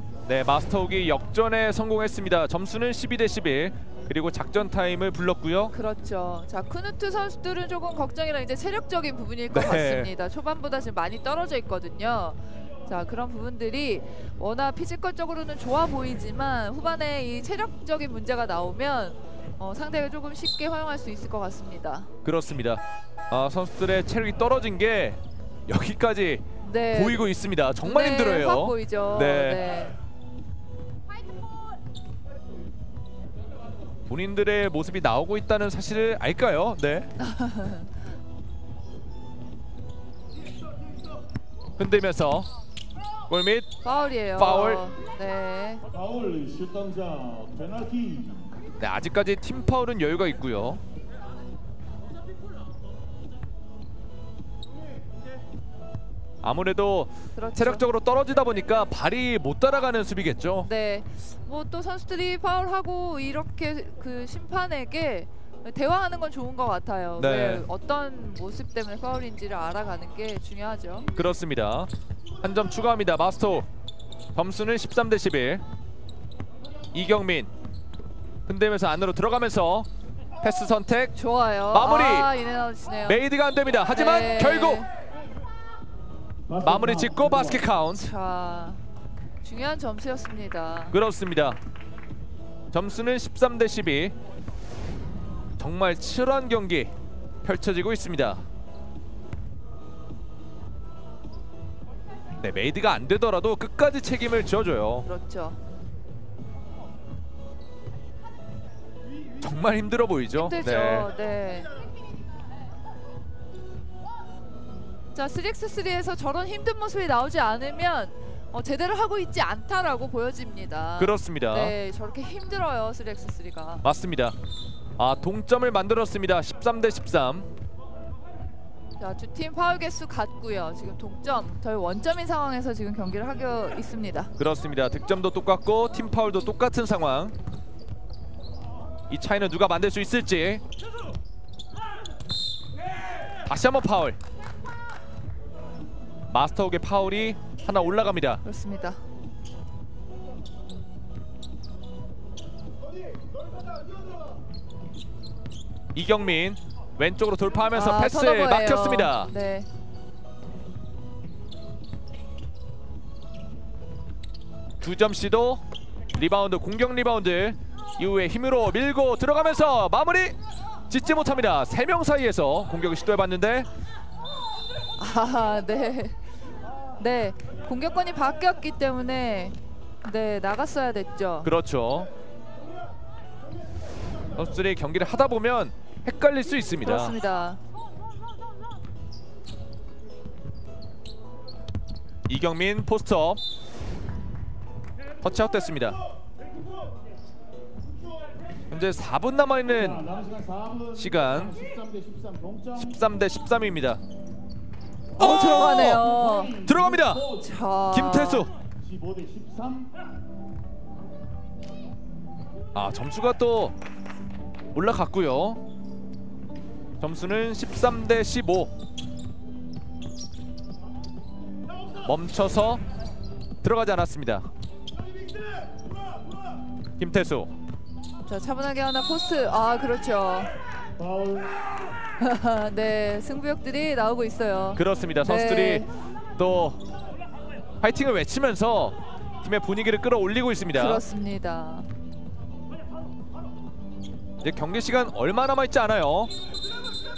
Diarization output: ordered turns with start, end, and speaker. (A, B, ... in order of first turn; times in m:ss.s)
0:00.3-0:05.7 A
0:05.7-0:22.1 B
0:09.5-0:10.1 A
0:22.2-0:29.6 A
0:26.6-0:27.3 B
0:27.8-0:30.0 B
0:34.1-0:37.1 A
0:37.2-0:37.9 B
0:41.8-0:42.5 A
0:43.3-0:43.7 A
0:43.8-0:45.8 B
0:44.4-0:44.9 A
0:45.9-0:48.5 C
0:48.8-0:50.8 A
0:56.4-1:00.7 A
0:57.4-0:57.8 B
1:00.6-1:11.1 B
1:07.2-1:07.6 A
1:11.2-1:11.9 A
1:12.4-1:13.7 A
1:14.4-1:15.6 A
1:16.9-1:17.5 A
1:18.5-1:19.9 A
1:20.4-1:21.2 A
1:21.2-1:23.3 B
1:21.7-1:22.3 A
1:23.1-1:24.9 A
1:23.8-1:24.9 B
1:26.5-1:27.6 C
1:26.6-1:28.1 A
1:27.9-1:28.8 B
1:29.4-1:31.0 B
1:30.9-1:31.6 A
1:32.7-1:34.2 A
1:35.6-1:38.4 A
1:42.4-1:45.1 A
1:45.0-1:45.6 B
1:49.4-1:51.1 A
1:50.4-1:51.8 B
1:55.1-2:03.8 B
2:01.0-2:01.8 A
2:03.8-2:04.4 A
2:05.0-2:07.5 A
2:09.0-2:14.3 B
2:14.4-2:17.4 A
2:19.1-2:20.6 A
2:23.5-2:24.2 A
2:26.3-2:28.4 A
2:28.4-2:29.0 B
2:35.9-2:39.3 A
2:37.7-2:39.7 B
2:44.8-2:45.6 A
2:46.1-2:50.4 A
2:50.9-2:53.7 A
2:55.0-2:56.2 B
2:57.0-3:01.5 B
3:01.4-3:02.1 A
3:04.3-3:07.2 A
3:06.8-3:07.6 B
3:12.3-3:13.4 A
3:15.2-3:16.0 A
3:18.7-3:20.1 A
3:19.7-3:22.8 C
3:21.0-3:21.6 A
3:22.8-3:24.0 A
3:25.2-3:26.6 B
3:25.2-3:26.1 A
3:25.8-3:27.5 C
3:26.6-3:27.2 A
3:27.3-3:28.5 B
3:27.9-3:28.5 A
3:28.8-3:29.9 C
3:32.8-3:33.8 A
3:34.7-3:35.6 A
3:37.0-3:38.7 A
3:42.0-3:42.8 A
3:43.6-3:44.5 A
3:47.0-3:47.5 A
3:48.3-3:50.5 B
3:51.0-3:51.6 C
3:52.2-3:55.9 B
3:54.8-3:55.9 A
3:56.4-3:56.8 A
3:57.8-4:01.0 A
4:00.7-4:01.9 B
4:04.4-4:06.3 A